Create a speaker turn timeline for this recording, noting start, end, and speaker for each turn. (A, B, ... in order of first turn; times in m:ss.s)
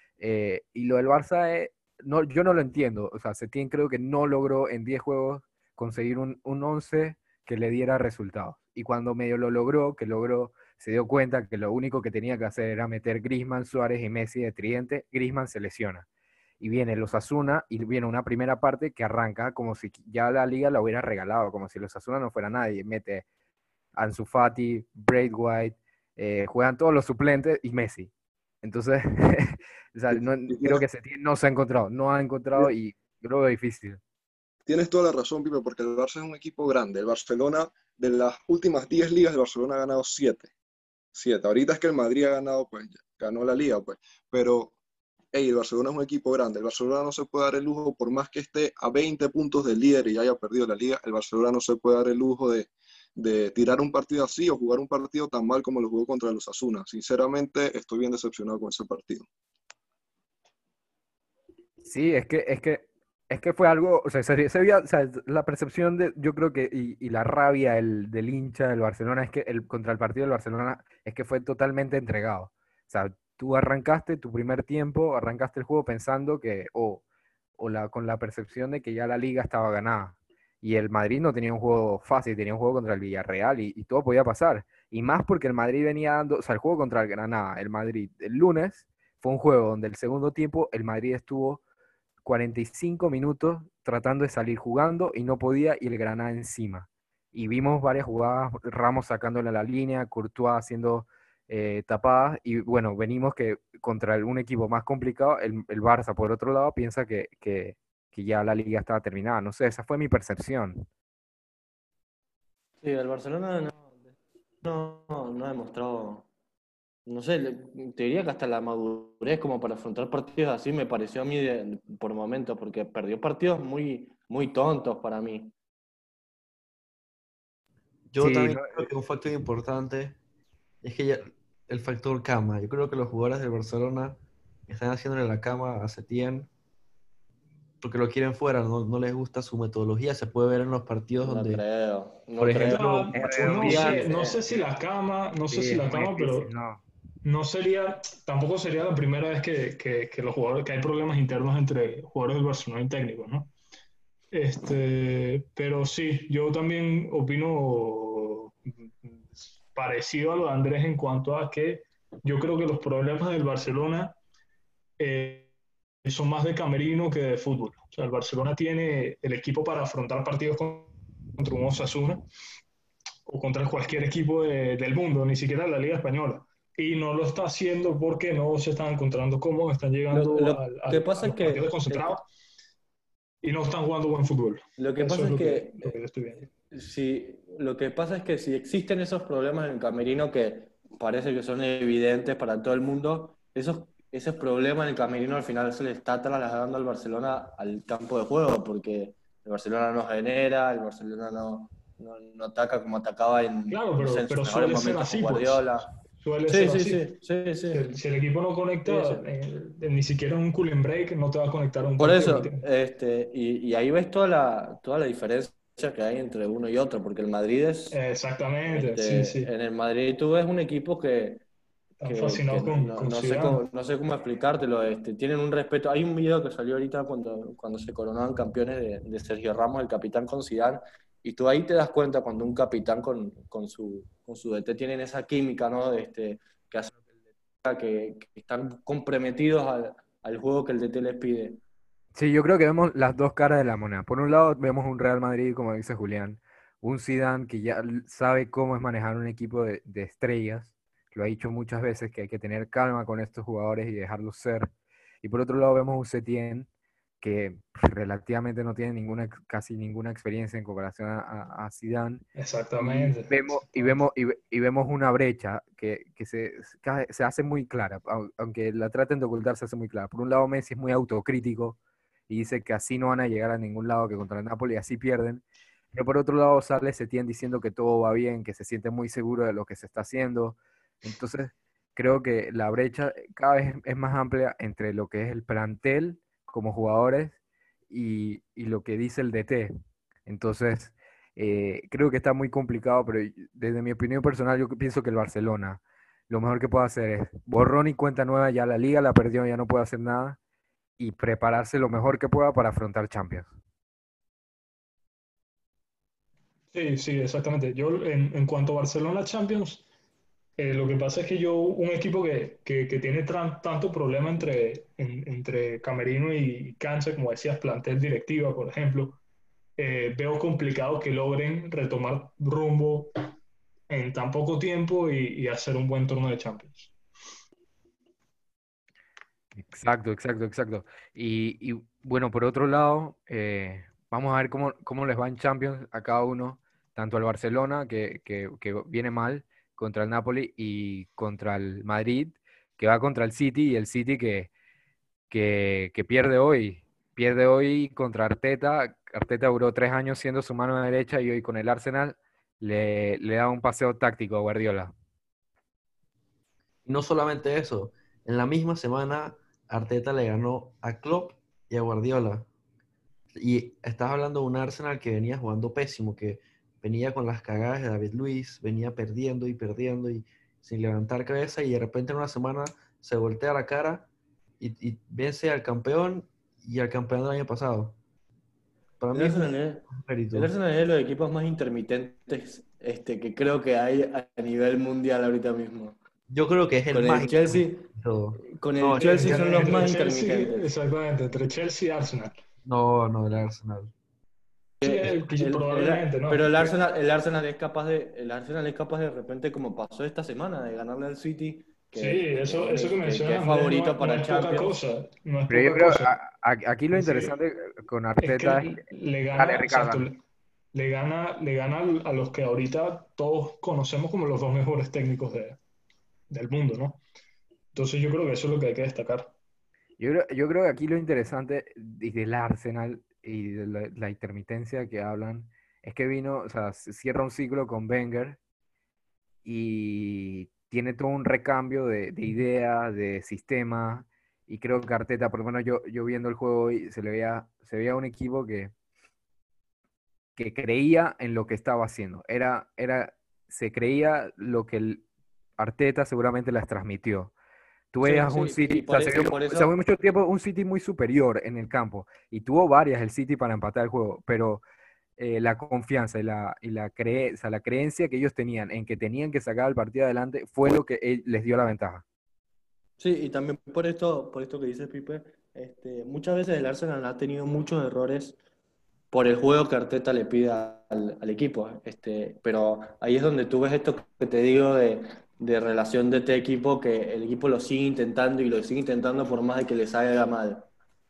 0:00.2-0:16.0 A
0:16.6-0:23.2 A
0:24.0-0:28.1 A
0:28.6-0:34.0 A
0:30.1-0:30.8 B
0:34.7-0:40.5 B
0:41.1-0:44.7 B
0:45.3-0:59.3 B
1:01.8-1:17.0 A
1:17.6-1:31.6 A
1:32.2-1:50.9 A
1:52.8-1:54.0 C
1:54.6-1:56.3 C
1:57.0-2:05.5 C
2:08.1-2:10.2 D
2:08.2-2:08.9 A
2:10.8-2:16.5 D
2:17.8-2:21.6 D
2:21.2-2:24.5 C
2:22.4-2:22.8 D
2:22.6-2:26.5 E
2:23.1-2:24.6 A
2:25.5-2:26.8 A
2:27.2-2:33.5 E
2:34.3-2:44.2 E
2:45.0-2:45.5 E
2:46.0-2:52.2 E
2:53.2-3:02.2 E
3:00.1-3:02.2 C
3:03.4-3:06.5 E
3:04.8-3:06.0 C
3:06.7-3:25.9 C
3:23.7-3:27.1 E
3:26.5-3:27.8 C
3:27.7-3:32.6 E
3:28.8-3:29.2 C
3:32.0-3:38.0 C
3:37.9-3:39.5 E
3:38.7-3:41.4 C
3:42.0-3:43.6 E
3:42.0-3:57.0 C
3:57.6-4:01.6 C
4:02.1-4:14.7 A
4:15.2-4:16.7 A
4:17.2-4:22.2 A
4:22.4-4:24.0 E
4:22.8-4:31.8 A
4:32.3-4:47.4 A
4:47.9-4:49.7 A
4:50.2-5:00.4 A
5:01.0-5:03.5 A
5:06.7-5:09.8 E
5:10.6-5:19.2 E
5:19.8-5:23.1 E
5:23.9-5:26.9 E
5:29.6-5:44.5 A
5:45.3-5:54.9 A
5:56.8-6:02.5 D
6:03.3-6:14.1 D
6:14.6-6:18.0 D
6:19.0-6:20.5 D
6:19.1-6:26.0 C
6:26.3-6:29.6 D
6:26.9-6:27.9 C
6:28.4-6:30.6 C
6:29.0-6:32.3 E
6:32.6-6:33.9 D
6:34.8-6:36.7 E
6:34.8-6:44.8 C
6:41.9-6:46.2 E
6:45.5-6:48.8 A
6:46.9-6:47.4 E
6:48.2-6:50.2 E
6:49.3-6:50.0 A
6:50.7-6:55.6 E
6:56.3-6:57.0 E
6:57.7-6:59.3 E
7:00.0-7:08.4 A
7:09.4-7:18.7 A
7:20.4-7:25.0 A
7:25.6-7:27.3 A
7:27.9-7:34.6 A
7:28.0-7:29.7 C
7:35.2-7:42.0 A
7:43.0-7:48.4 C
7:49.1-8:00.7 C